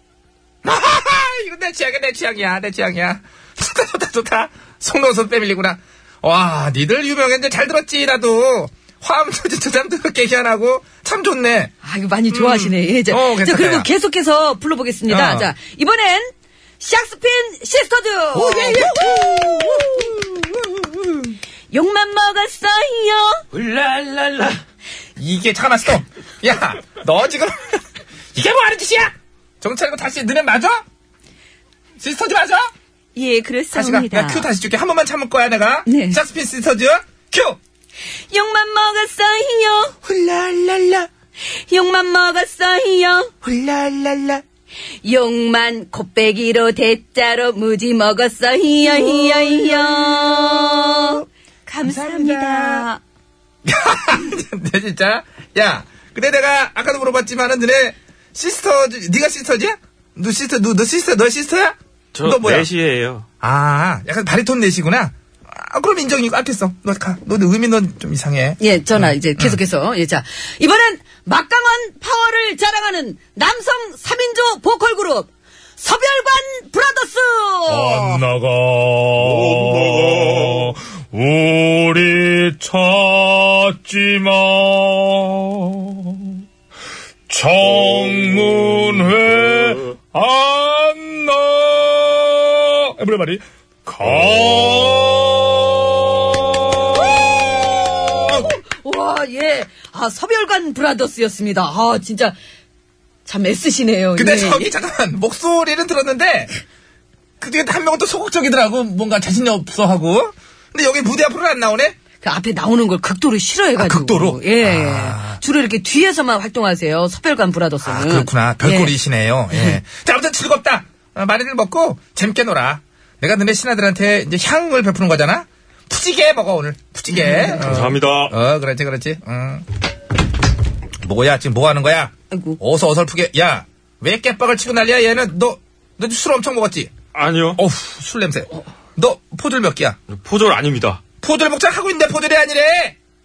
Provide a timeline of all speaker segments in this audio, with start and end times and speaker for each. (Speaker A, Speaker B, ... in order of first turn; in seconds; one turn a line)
Speaker A: 0.6-11.7
Speaker B: 11.8-20.1
Speaker A: 12.3-13.9
Speaker A: 15.1-15.5
Speaker A: 18.3-20.3
Speaker B: 21.7-23.5
Speaker A: 23.5-24.6
Speaker A: 25.2-30.8
Speaker A: 32.0-32.7
Speaker B: 33.1-34.5
Speaker A: 33.7-37.6
Speaker B: 35.9-36.2
Speaker B: 38.3-40.0
Speaker A: 40.1-41.1
Speaker B: 41.5-43.4
Speaker A: 43.4-44.4
Speaker B: 45.0-53.0
Speaker A: 48.9-51.2
Speaker A: 51.8-52.9
Speaker A: 53.6-62.7
Speaker C: 62.1-63.2
Speaker A: 63.4-69.6
Speaker B: 68.6-78.3
Speaker D: 77.7-86.4
Speaker D: 87.3-97.0
Speaker B: 96.9-102.4
Speaker B: 103.2-104.7
Speaker A: 104.2-106.6
Speaker A: 107.4-112.0
Speaker B: 112.2-119.0
Speaker A: 113.8-115.4
Speaker A: 117.8-129.7
Speaker B: 119.5-119.8
Speaker B: 127.1-127.8
Speaker C: 127.6-128.3
Speaker A: 131.0-136.9
Speaker B: 132.3-132.6
Speaker C: 137.2-137.6
Speaker A: 137.6-140.0
Speaker C: 140.1-141.0
Speaker A: 141.2-143.0